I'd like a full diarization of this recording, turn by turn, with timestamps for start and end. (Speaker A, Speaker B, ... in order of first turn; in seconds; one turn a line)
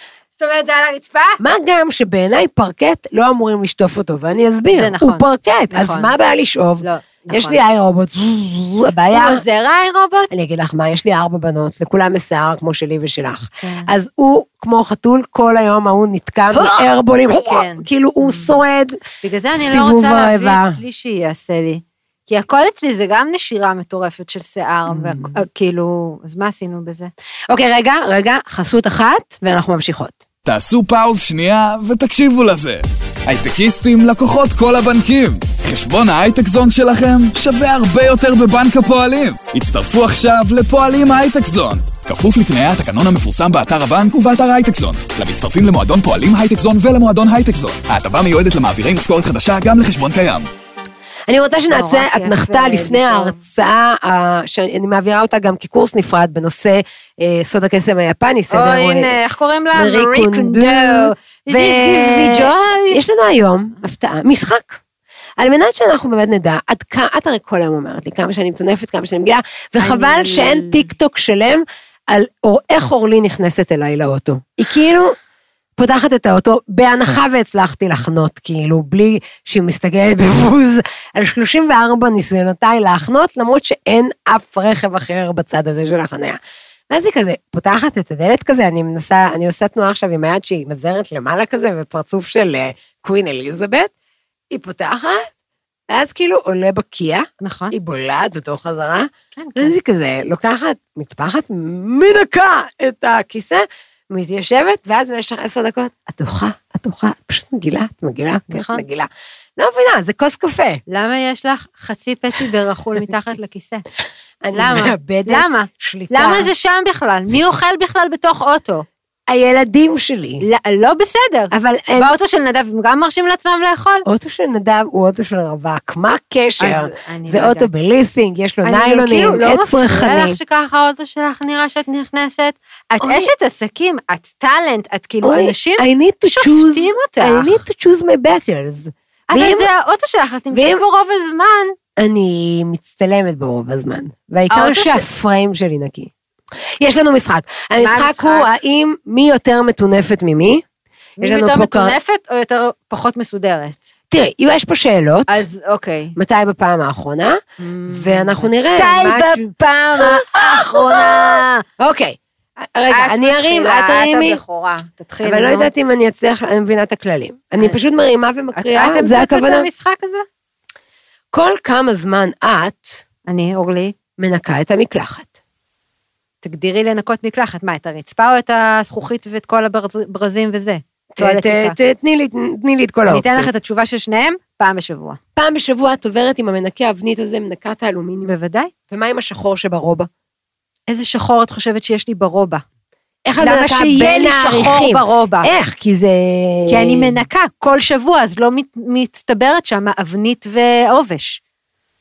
Speaker A: 0.4-1.4
Speaker B: 1.4-9.4
Speaker A: 4.7-6.1
Speaker A: 6.8-7.6
Speaker A: 9.1-10.3
Speaker B: 10.3-19.0
Speaker A: 13.6-13.9
Speaker A: 16.5-18.6
Speaker A: 19.2-27.1
Speaker B: 19.6-20.8
Speaker B: 24.9-25.4
Speaker B: 27.5-30.2
Speaker C: 30.4-50.5
Speaker B: 51.3-59.2
Speaker A: 51.7-53.4
Speaker A: 58.5-63.0
Speaker B: 59.7-64.8
Speaker B: 65.4-75.2
Speaker A: 69.8-70.9
Speaker B: 75.8-86.4
Speaker B: 86.9-93.9
Speaker B: 94.5-95.3
Speaker B: 95.9-110.8
Speaker A: 97.4-97.8
Speaker A: 99.4-99.7
Speaker A: 108.5-108.8
Speaker A: 110.9-113.8
Speaker B: 114.4-116.5
Speaker A: 114.5-118.9
Speaker B: 119.3-120.4
Speaker A: 120.4-124.0
Speaker B: 121.5-122.1
Speaker B: 124.0-130.4
Speaker A: 126.6-127.7
Speaker A: 128.6-137.6
Speaker B: 133.0-133.3
Speaker B: 135.2-139.7
Speaker A: 139.3-141.7
Speaker B: 140.5-140.8
Speaker B: 142.0-146.1
Speaker A: 144.5-145.1
Speaker B: 146.8-150.6
Speaker A: 147.8-148.5
Speaker A: 151.2-153.8
Speaker B: 151.2-152.0
Speaker B: 154.1-155.5
Speaker A: 155.3-156.2
Speaker B: 156.2-164.4
Speaker A: 157.6-161.6
Speaker A: 162.9-165.7
Speaker B: 165.2-169.7
Speaker A: 168.6-170.3
Speaker B: 171.3-173.0
Speaker A: 173.3-173.9
Speaker B: 174.2-175.3
Speaker A: 176.4-181.8
Speaker B: 181.2-183.5
Speaker A: 183.1-185.2
Speaker B: 185.4-188.3
Speaker A: 188.2-188.7
Speaker B: 188.9-190.1
Speaker A: 190.9-192.6
Speaker B: 193.3-197.2
Speaker A: 193.4-195.5
Speaker A: 196.7-201.4